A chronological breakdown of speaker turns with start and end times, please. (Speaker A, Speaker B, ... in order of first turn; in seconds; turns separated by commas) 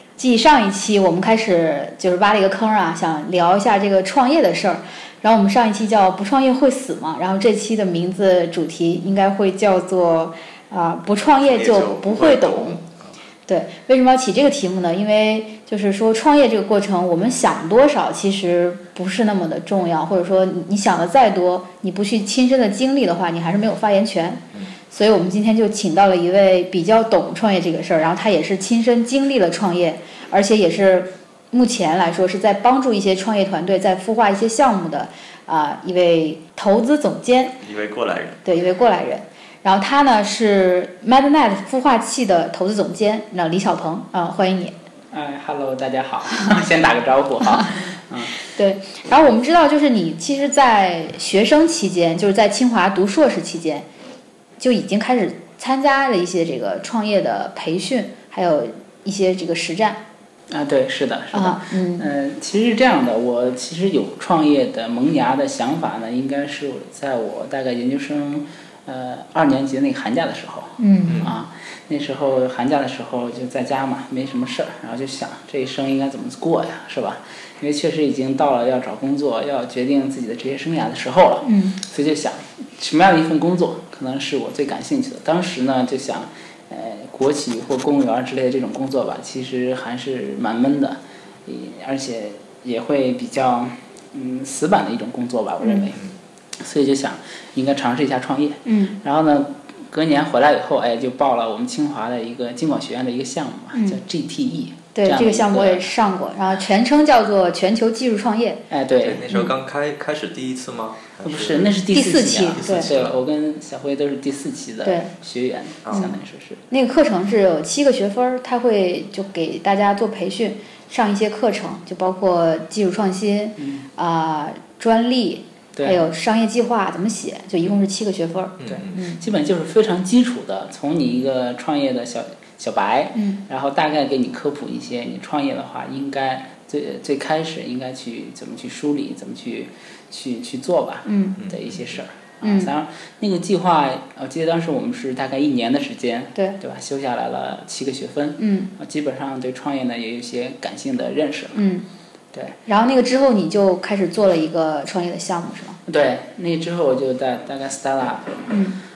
Speaker A: 0.2-12.8, Speaker B: 11.2-13.0, Speaker A: 13.5-37.6, Speaker B: 37.6-38.4, Speaker A: 38.5-44.8, Speaker C: 45.1-48.4, Speaker A: 48.4-53.9, Speaker A: 54.6-60.0, Speaker C: 60.5-96.0, Speaker A: 61.3-62.1, Speaker A: 70.8-71.3, Speaker B: 71.1-71.3, Speaker A: 81.4-81.8, Speaker A: 95.6-95.9, Speaker C: 96.6-105.9, Speaker A: 98.7-99.0, Speaker A: 103.7-104.0, Speaker A: 105.0-108.6, Speaker C: 108.7-109.2, Speaker B: 109.0-111.7, Speaker C: 111.2-116.6, Speaker A: 111.9-112.9, Speaker B: 112.6-113.2, Speaker A: 114.8-115.1, Speaker B: 115.8-116.1, Speaker A: 116.7-129.2, Speaker C: 123.6-123.9, Speaker C: 125.8-126.0, Speaker B: 128.6-129.0, Speaker C: 128.7-151.6, Speaker A: 133.1-133.4, Speaker A: 141.1-141.4, Speaker B: 141.4-141.9, Speaker A: 142.4-142.7, Speaker A: 148.4-148.7, Speaker A: 151.5-151.9, Speaker A: 152.7-155.8, Speaker C: 155.9-158.6, Speaker A: 158.5-158.8